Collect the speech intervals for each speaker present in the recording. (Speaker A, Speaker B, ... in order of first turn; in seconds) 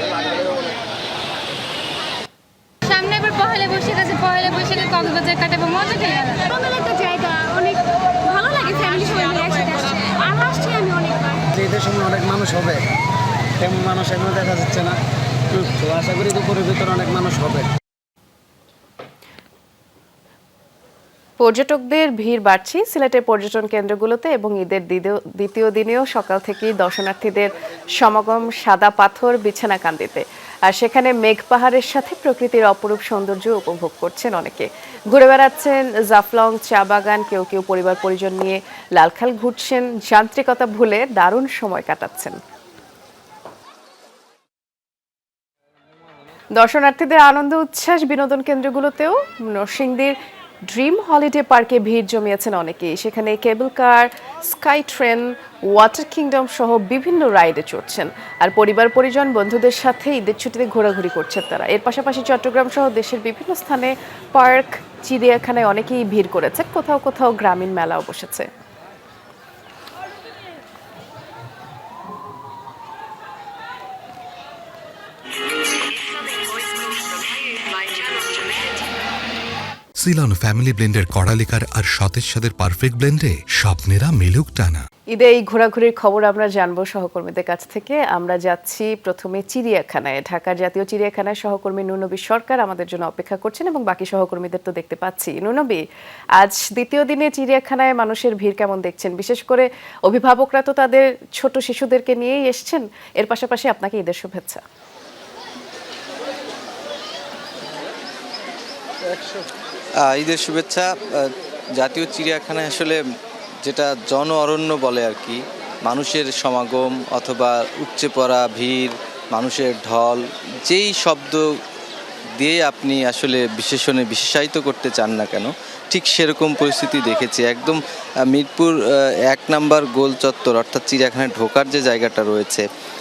Speaker A: 2.8-6.4
Speaker B: 6.5-11.4, 76.2-78.7
Speaker C: 11.6-12.7, 13.6-14.9, 15.8-17.6
Speaker D: 21.4-42.4, 46.5-50.1, 50.7-68.5, 85.1-95.8, 96.4-104.6
Speaker E: 80.0-84.9
Speaker F: 110.0-113.0, 113.6-121.6, 122.4-132.6